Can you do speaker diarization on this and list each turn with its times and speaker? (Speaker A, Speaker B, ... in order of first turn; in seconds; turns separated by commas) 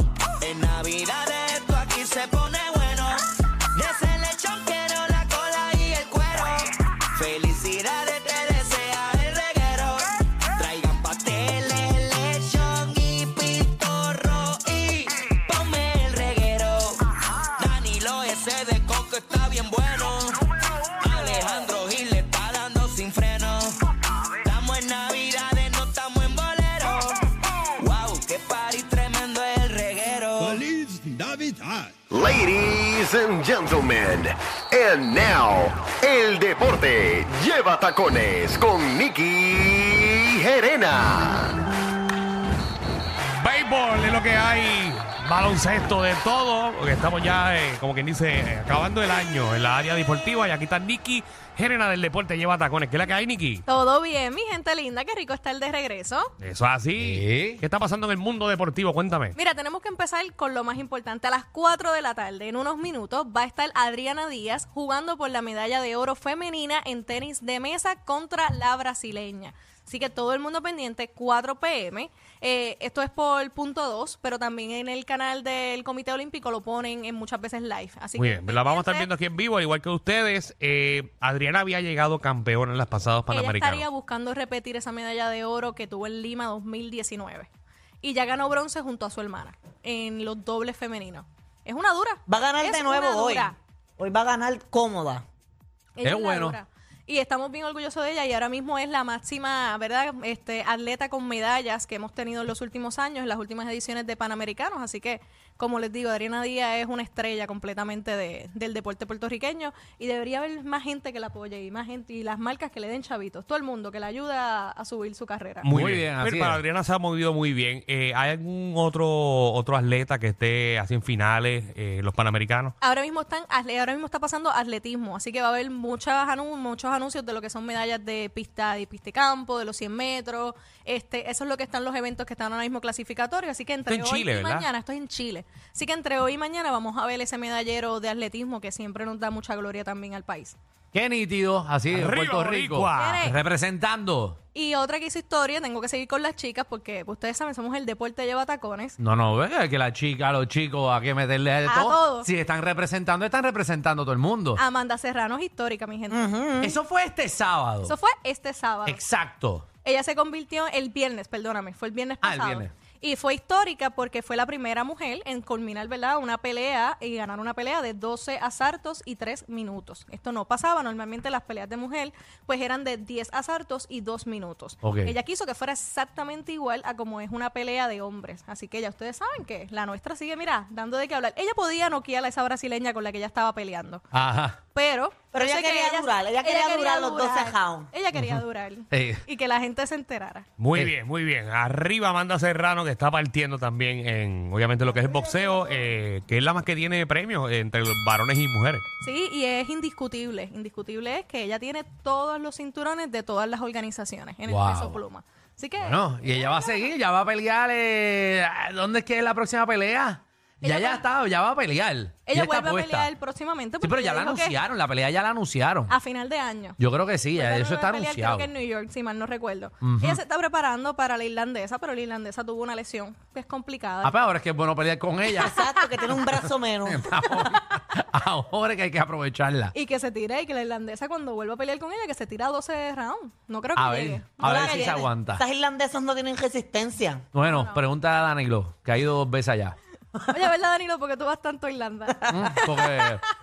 Speaker A: 0.5-3.2, Speaker A: 3.8-6.6, Speaker A: 7.2-10.0, Speaker A: 10.6-16.9, Speaker A: 17.6-20.3, Speaker A: 21.0-23.7, Speaker A: 24.5-27.1, Speaker A: 28.0-30.6, Speaker B: 30.6-41.6, Speaker C: 43.4-53.6, Speaker D: 53.7-56.3, Speaker C: 56.4-59.4, Speaker E: 57.0-57.6, Speaker D: 59.4-79.1, Speaker C: 78.2-83.8, Speaker D: 83.3-87.5, Speaker D: 88.0-93.5, Speaker F: 92.3-95.2, Speaker D: 96.0-115.7, Speaker E: 96.0-96.6, Speaker C: 115.6-122.7, Speaker E: 115.7-116.5, Speaker D: 122.8-140.6, Speaker C: 133.9-134.7, Speaker E: 140.9-144.4, Speaker C: 141.9-143.3, Speaker D: 142.9-143.4, Speaker D: 144.5-149.0, Speaker E: 149.0-154.6, Speaker D: 151.7-152.3, Speaker D: 154.6-156.3, Speaker F: 156.1-156.8, Speaker E: 156.6-157.9, Speaker D: 157.8-159.0, Speaker E: 158.9-159.7, Speaker D: 159.8-184.0, Speaker E: 162.2-162.7, Speaker E: 174.8-175.2, Speaker E: 184.1-184.6, Speaker D: 184.7-190.5, Speaker F: 185.3-187.9, Speaker E: 188.9-189.2, Speaker C: 190.6-198.8, Speaker F: 194.9-195.8, Speaker D: 199.0-206.9, Speaker E: 204.5-205.0, Speaker E: 205.8-213.1, Speaker D: 210.6-211.1, Speaker D: 212.2-214.6, Speaker E: 213.8-215.9, Speaker D: 215.9-216.8, Speaker E: 216.8-218.5, Speaker D: 217.3-224.1, Speaker E: 219.8-220.2, Speaker E: 224.0-229.7, Speaker F: 225.3-227.1, Speaker D: 229.7-234.9, Speaker E: 233.8-235.4, Speaker F: 234.4-237.3, Speaker E: 237.3-239.8, Speaker D: 237.4-237.8, Speaker D: 240.3-243.0, Speaker E: 242.3-243.2